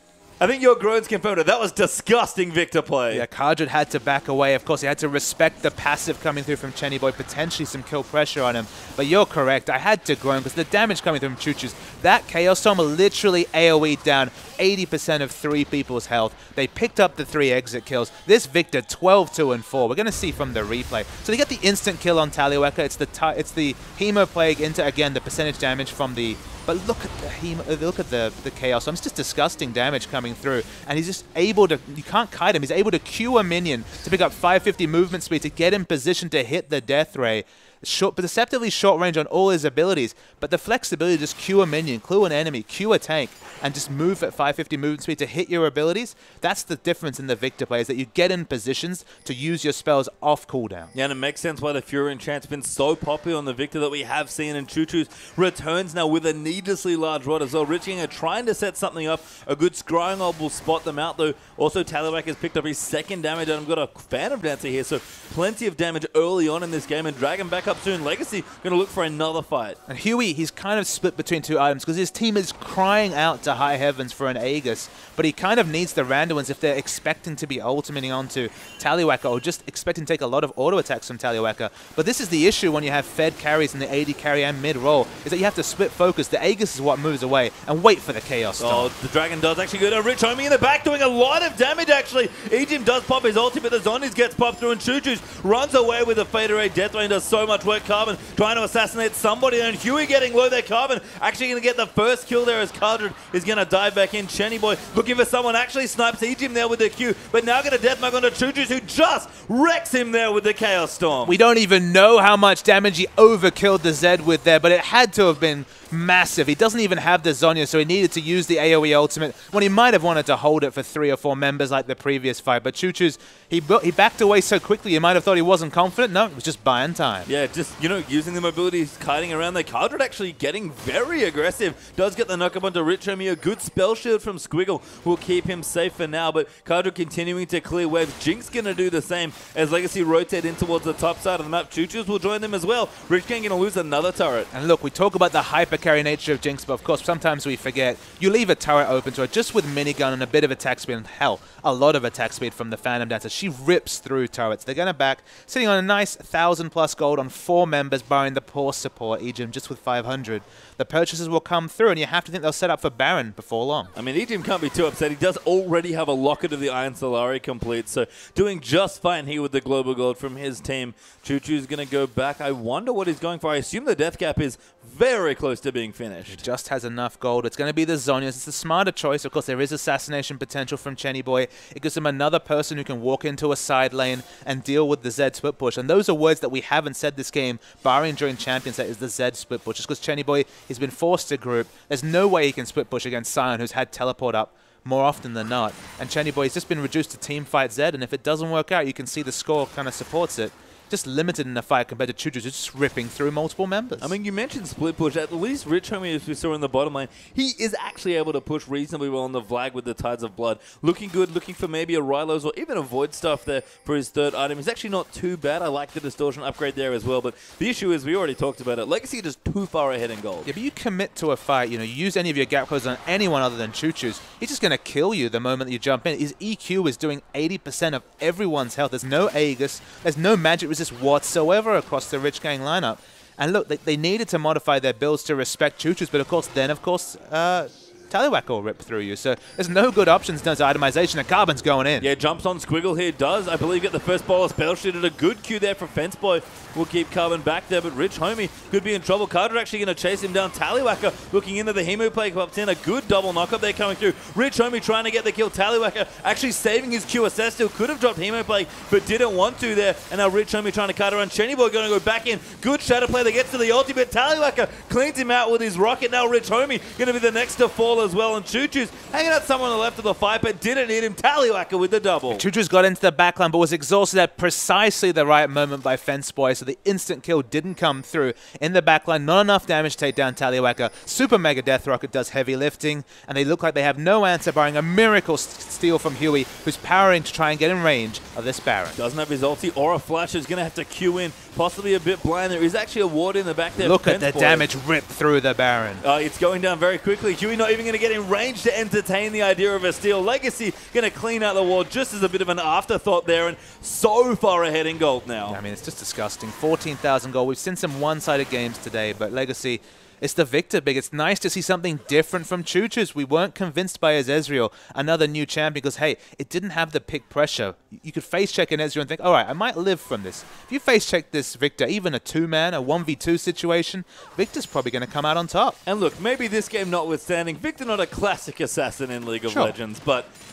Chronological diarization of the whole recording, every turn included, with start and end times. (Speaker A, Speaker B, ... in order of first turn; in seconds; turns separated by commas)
Speaker A: 0.4-3.2, Speaker B: 3.1-50.9, Speaker A: 50.9-69.8, Speaker B: 69.9-88.9, Speaker A: 88.6-111.3, Speaker B: 111.2-127.3, Speaker A: 127.3-144.5, Speaker B: 144.5-163.9, Speaker A: 163.9-176.4, Speaker B: 176.3-204.2, Speaker A: 204.0-220.5, Speaker B: 220.4-242.1, Speaker A: 242.0-272.4, Speaker B: 272.3-289.0, Speaker A: 289.0-294.7, Speaker B: 293.8-296.0, Speaker A: 296.0-305.6, Speaker B: 305.5-325.8, Speaker A: 325.9-330.3, Speaker B: 329.5-329.8